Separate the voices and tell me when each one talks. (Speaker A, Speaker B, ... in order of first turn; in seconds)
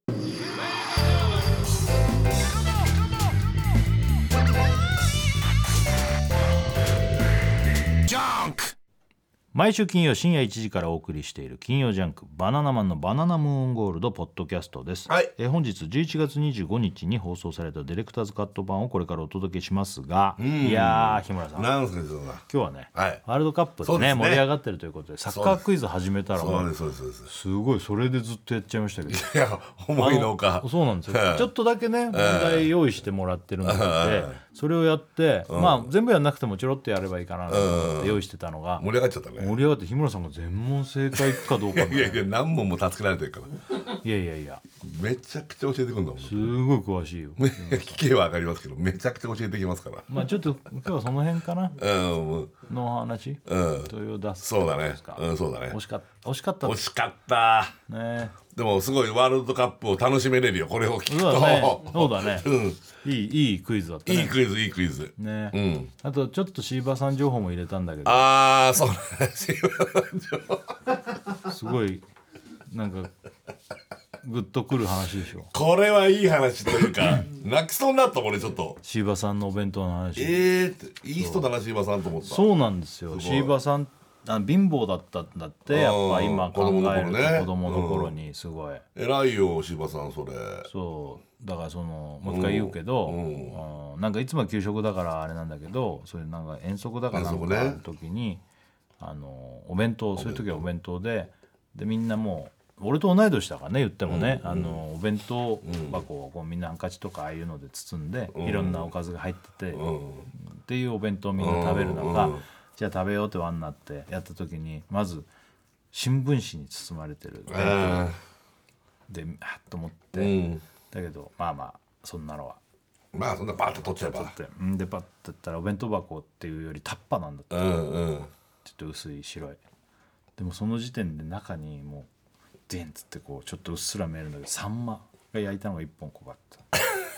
Speaker A: 8.1-8.7, 20.4-23.2, 23.8-24.4, 25.3-25.6, 26.4-27.3, 29.1-31.5, 32.1-32.7, 33.6-34.4, 35.5-35.9, 37.5-38.2, 38.8-39.6, 41.1-43.5, 44.8-46.5, 47.4-50.1, 51.8-52.5, 53.5-55.8, 56.6-57.7, 58.5-62.8, 64.1-65.9, 68.0-70.7, 75.5-78.8, 80.2-82.5, 83.1-83.5, 85.7-88.1, 89.0-90.7, 92.2-93.6, 97.1-97.8, 100.2-100.6, 104.1-104.8, 105.6-106.0, 108.3-108.9, 109.7-110.3, 111.4-112.4, 117.5-118.2, 120.2-120.6, 123.1-124.3, 127.5-128.3
Speaker B: 9.5-21.7, 22.5-26.7, 27.3-29.3, 30.0-38.9, 39.4-42.3, 44.0-44.6, 46.2-48.0, 50.1-51.8, 52.7-56.8, 57.9-58.4, 61.1-62.5, 63.0-64.4, 65.2-68.3, 71.4-72.0, 72.7-73.1, 74.2-75.5, 78.8-80.5, 81.2-81.5, 82.2-88.8, 90.7-98.4, 99.0-115.3, 115.9-118.1, 119.1-122.6, 123.8-127.8, 128.6-129.6, 130.4-132.1, 132.7-136.7